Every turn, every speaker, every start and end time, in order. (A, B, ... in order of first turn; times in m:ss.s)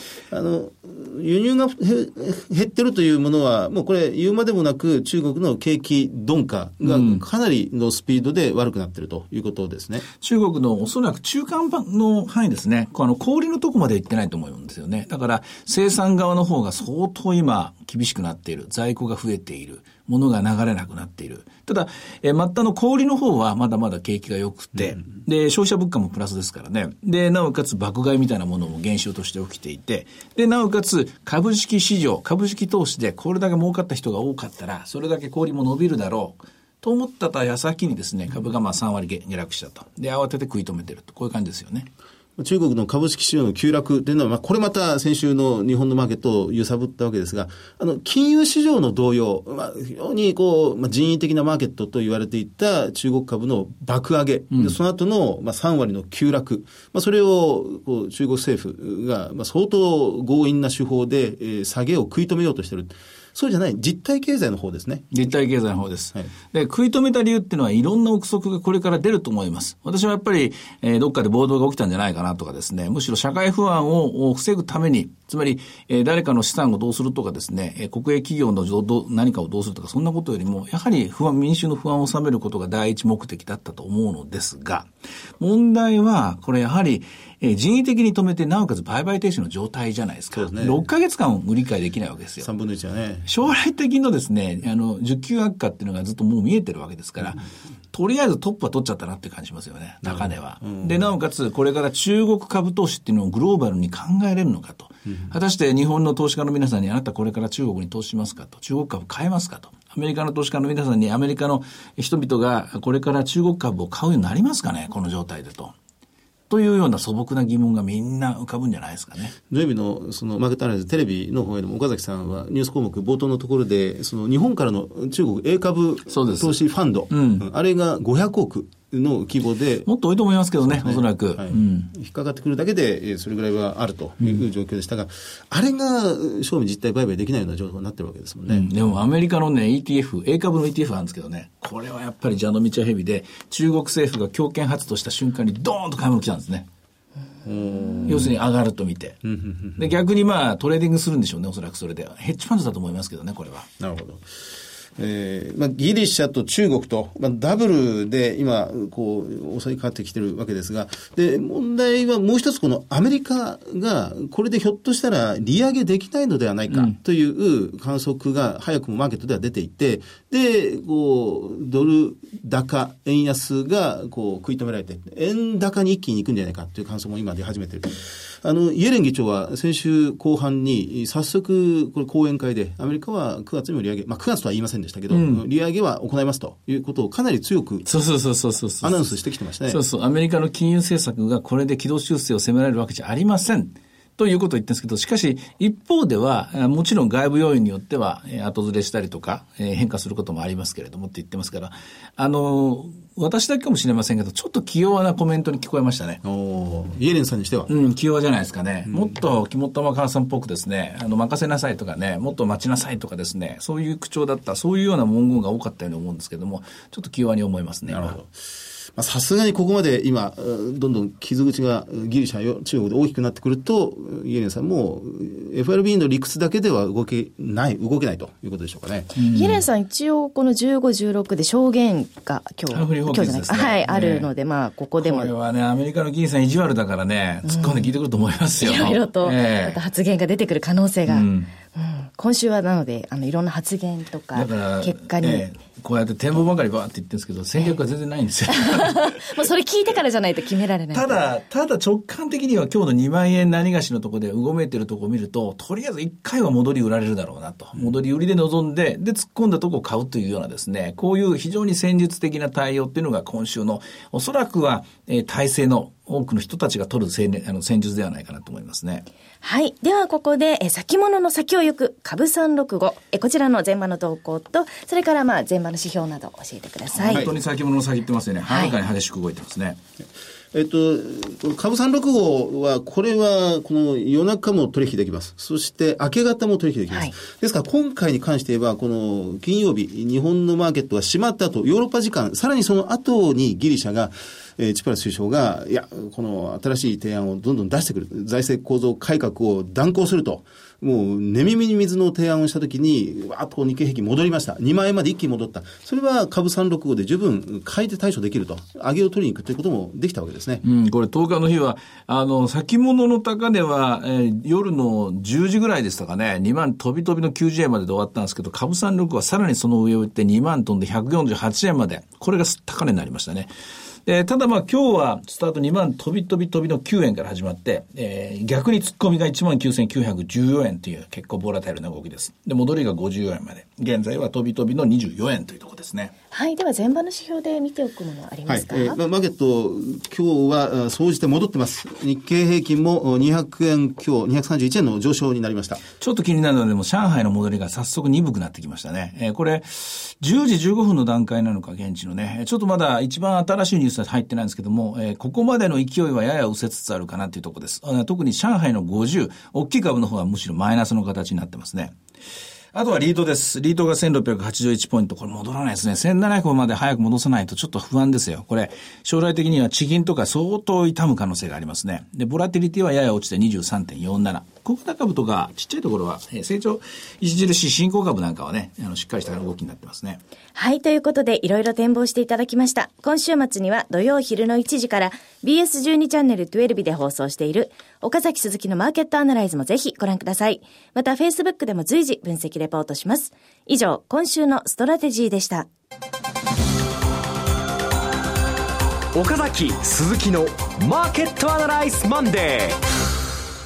0:00.3-0:10.0 A
0:06.8-0:07.2 B
0:10.2-0:41.9 B
0:42.4-1:05.1 A
0:54.5-0:54.8 B
1:05.1-1:24.9 B
1:25.4-1:32.5 B
1:30.3-1:30.8 A
1:32.4-1:33.3 A
1:33.3-1:55.7 B
1:40.0-1:41.0 A
1:56.5-1:59.3 B
1:59.5-2:09.9 A
2:06.1-2:06.6 B
2:07.1-2:07.5 B
2:09.9-2:11.9 B
2:10.8-2:18.8 A
2:18.5-2:26.7 B
2:27.4-2:28.4 A
2:28.0-2:29.2 B
2:29.2-2:29.9 A
2:29.8-2:33.7 B
2:33.8-2:34.2 A
2:35.0-3:07.9 A
2:46.7-2:47.0 B
3:05.1-3:05.4 B
3:07.9-3:09.1 B
3:08.8-3:09.8 A
3:09.7-3:26.2 B
3:26.2-3:27.7 A
3:27.7-3:38.2 B
3:37.9-3:38.3 A
3:39.0-3:49.2 A
3:49.2-3:49.6 B
3:49.3-3:55.3 C
3:52.7-3:54.3 B
3:55.0-3:59.8 B
3:58.6-4:05.4 C
4:01.1-4:01.5 B
4:04.3-4:09.4 B
4:08.5-4:11.2 C
4:10.9-4:29.0 B
4:29.4-4:37.3 C
4:36.9-4:39.8 B
4:37.1-4:37.4 A
4:38.5-4:38.8 C
4:40.5-5:10.6 A
5:10.6-5:23.5 B
5:24.0-5:36.1 B
5:36.3-5:39.0 C
5:38.5-5:45.8 A
5:46.0-6:01.9 B
6:02.7-6:20.2 B
6:20.5-6:35.7 C
6:39.1-6:42.8 D